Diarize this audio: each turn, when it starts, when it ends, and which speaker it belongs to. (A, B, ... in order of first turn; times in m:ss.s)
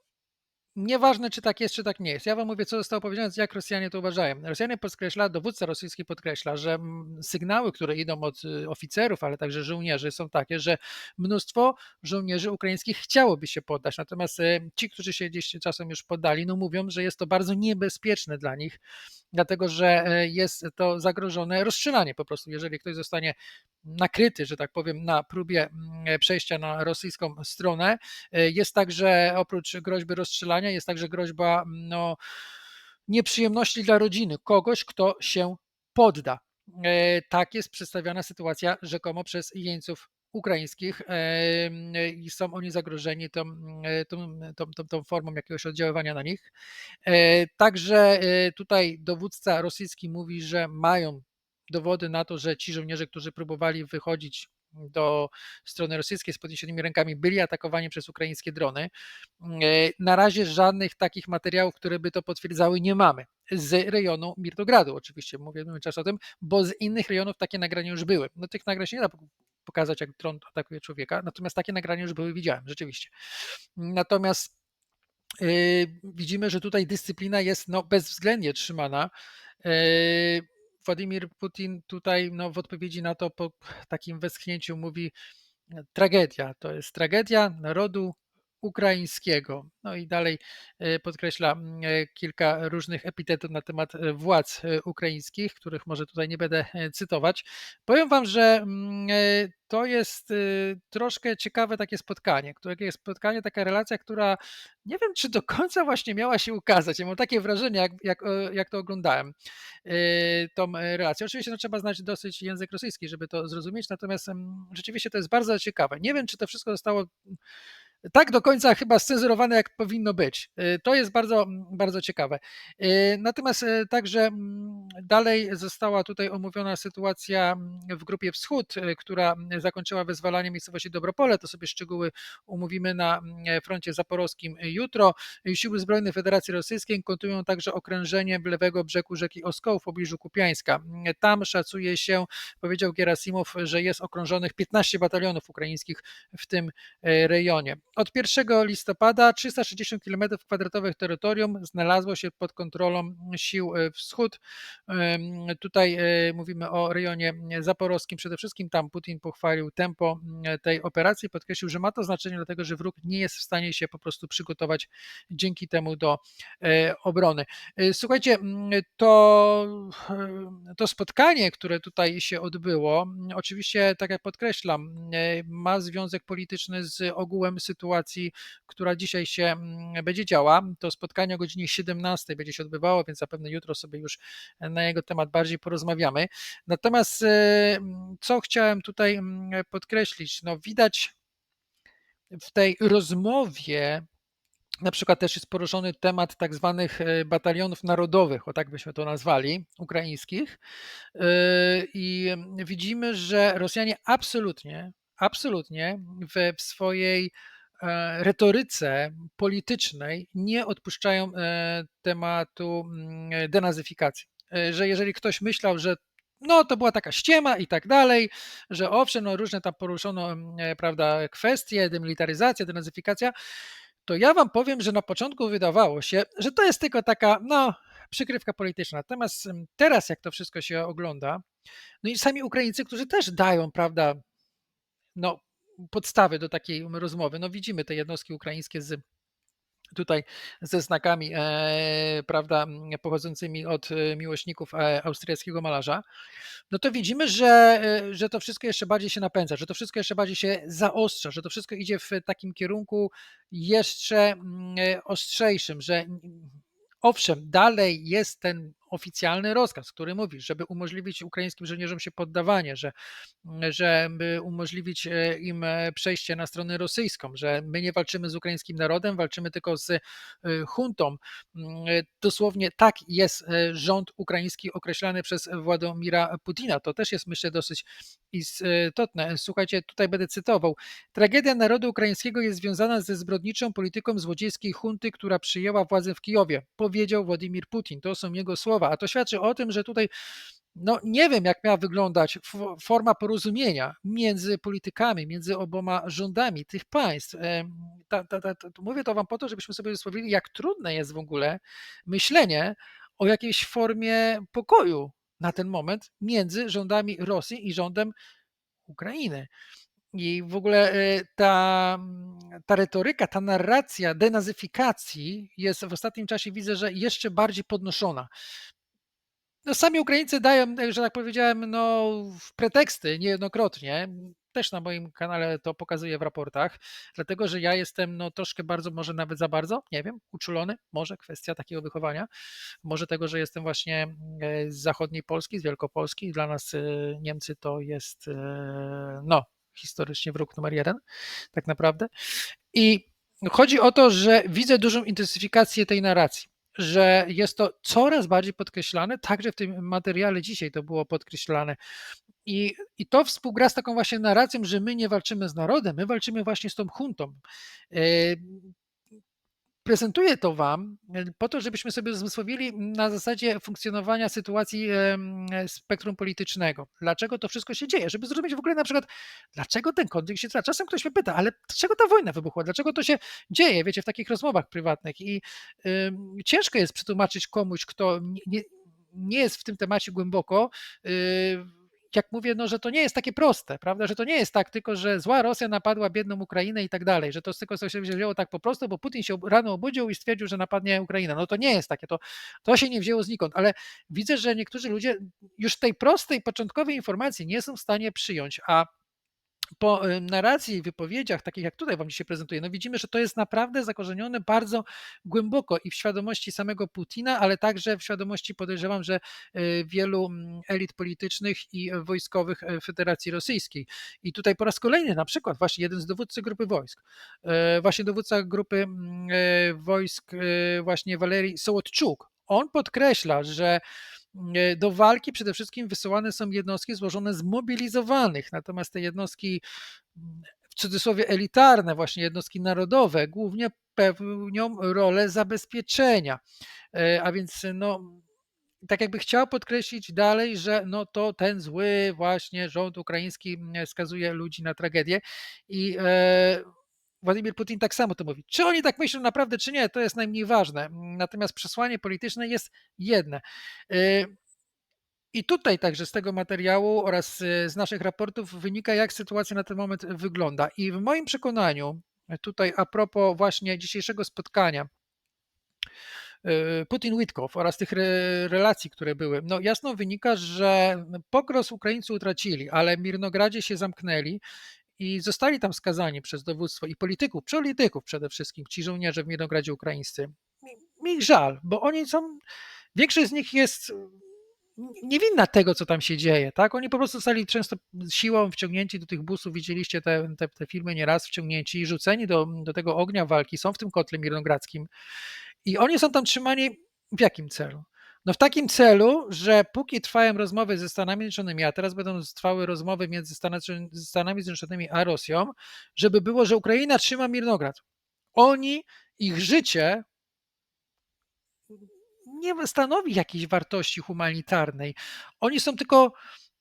0:00.8-0:18.8 A
0:19.3-0:32.2 A
0:33.1-0:46.5 A
0:47.0-1:13.1 A
1:13.8-1:14.5 A
1:15.4-1:19.1 A
1:19.6-1:25.1 A
1:25.9-1:49.3 A
1:49.8-1:57.4 A
1:58.1-3:11.1 A
3:12.4-3:14.0 A
3:14.8-3:20.6 A
3:21.2-3:43.3 A
3:44.1-3:51.4 A
3:52.0-3:54.2 A
3:55.2-3:59.0 A
4:00.0-4:06.0 A
4:06.7-4:22.9 A
4:23.4-4:50.1 A
4:50.8-5:08.1 A
5:08.9-5:09.5 A
5:10.1-5:18.3 A
5:19.7-5:32.3 A
5:32.8-5:41.0 A
5:41.5-5:42.1 A
5:42.7-5:51.8 A
5:52.5-5:57.4 A
5:57.9-5:58.7 A
5:59.8-6:38.9 A
6:39.8-7:03.8 A
7:04.3-7:09.6 A
7:10.2-7:16.4 A
7:16.9-7:18.2 A
7:18.8-7:26.6 A
7:27.2-7:34.3 A
7:35.3-7:44.9 A
7:46.4-7:54.4 A
7:55.0-8:00.3 A
8:01.0-8:02.4 A
8:03.0-8:04.1 A
8:04.8-8:14.9 A
8:15.6-8:27.8 A
8:28.4-8:30.0 A
8:32.3-8:36.1 A